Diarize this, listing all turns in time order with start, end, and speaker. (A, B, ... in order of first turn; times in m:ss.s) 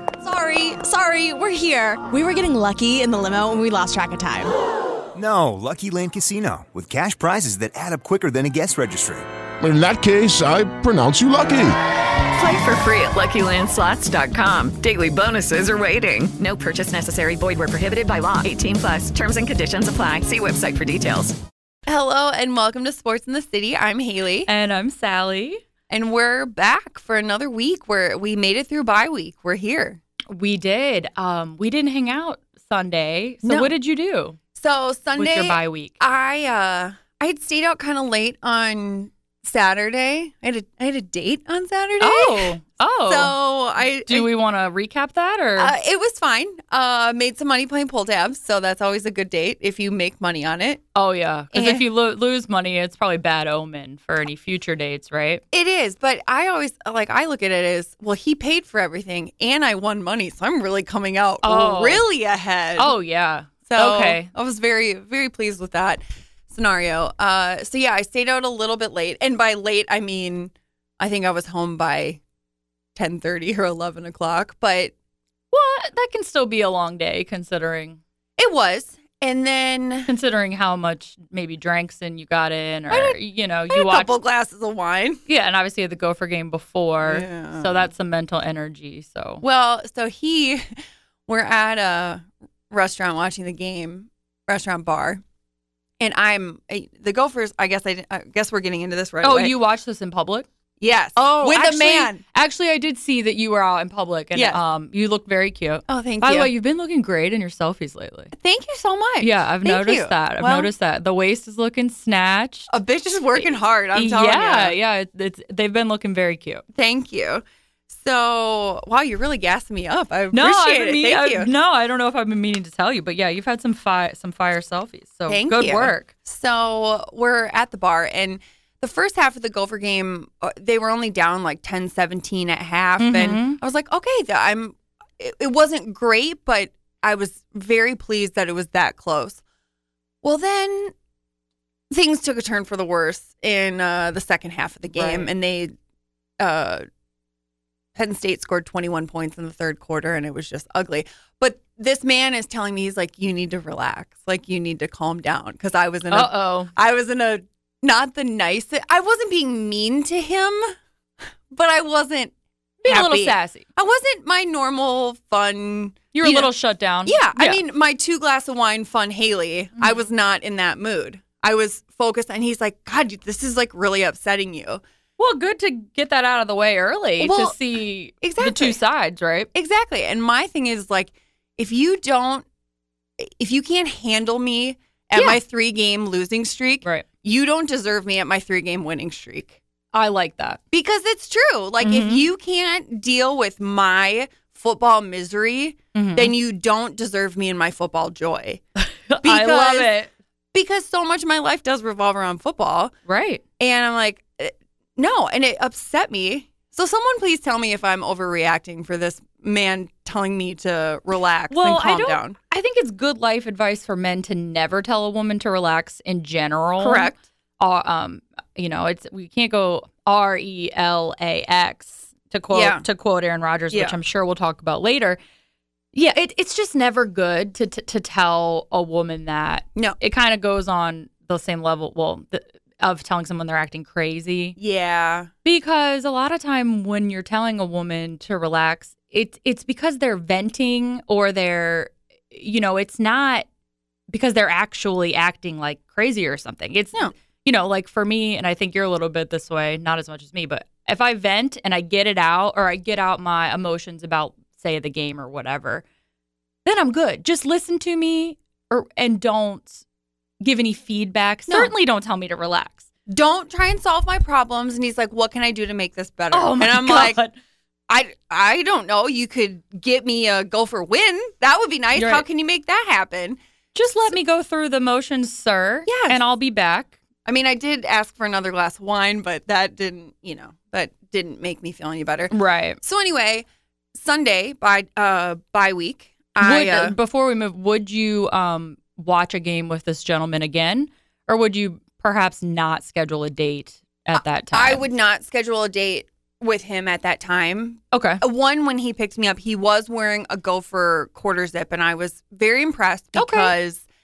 0:00.2-0:04.5 A
0:05.2-0:09.2 B
0:09.6-0:11.8 C
0:12.3-0:21.4 D
0:21.9-0:24.5 E
0:24.5-0:25.6 F
0:25.9-0:30.0 E
0:30.3-0:34.4 F
0:33.4-0:33.7 E
0:34.6-0:42.5 E
0:35.2-0:36.0 F
0:42.0-0:43.3 F
0:43.1-0:44.3 E
0:44.1-0:45.8 F
0:45.6-0:50.8 E
0:51.0-0:55.4 F
0:51.5-0:51.8 E
0:55.5-1:02.9 E
1:01.4-1:02.0 F
1:02.8-1:04.3 F
1:03.7-1:12.2 E
1:13.0-1:14.9 E
1:15.5-1:18.0 F
1:18.4-1:20.1 E
1:20.1-1:24.2 F
1:22.9-1:25.2 E
1:25.3-1:29.4 F
1:27.0-1:27.9 E
1:29.4-1:30.7 E
1:31.3-1:35.2 E
1:36.0-1:39.5 E
1:39.2-1:40.5 F
1:40.8-1:42.2 E
1:41.2-1:48.3 F
1:44.3-1:44.6 E
1:45.9-1:46.5 E
1:48.3-1:50.7 E
1:49.2-1:52.7 F
1:52.7-1:54.8 E
1:53.4-1:56.6 F
1:56.7-2:01.5 E
2:00.3-2:06.1 F
2:05.3-2:19.4 E
2:13.0-2:13.6 F
2:20.2-2:20.9 E
2:21.9-2:25.7 E
2:24.9-2:25.3 F
2:26.4-2:26.9 E
2:28.0-2:40.7 E
2:36.1-2:36.7 F
2:41.5-2:42.3 E
2:42.8-2:43.6 F
2:42.8-2:46.5 E
2:46.1-2:47.6 F
2:47.1-2:54.8 E
2:49.8-2:50.0 F
2:55.2-2:59.5 F
2:57.2-2:57.6 E
2:58.2-2:58.8 E
2:59.5-3:02.4 E
3:03.2-3:09.6 E
3:09.9-3:10.6 F
3:10.7-3:18.6 E
3:11.8-3:12.2 F
3:15.9-3:16.4 F
3:18.8-3:20.1 F
3:19.2-3:19.9 E
3:20.5-3:22.9 E
3:23.1-3:23.4 F
3:23.6-3:32.4 E
3:31.5-3:45.2 F
3:36.8-3:37.2 E
3:42.5-3:42.8 E
3:43.7-3:44.0 E
3:45.9-3:54.6 F
3:54.6-3:55.3 E
3:55.4-4:03.5 F
4:04.1-4:15.8 F
4:16.6-4:19.8 F
4:20.4-4:22.9 F
4:21.5-4:21.7 E
4:23.1-4:27.2 E
4:26.3-4:27.4 F
4:27.9-4:33.4 E
4:32.0-4:32.2 F
4:33.8-4:37.0 F
4:35.9-4:36.2 E
4:37.3-4:47.0 E
4:42.3-4:42.8 F
4:46.4-4:54.8 F
4:54.2-5:03.8 E
4:57.9-4:58.2 F
5:03.2-5:03.5 F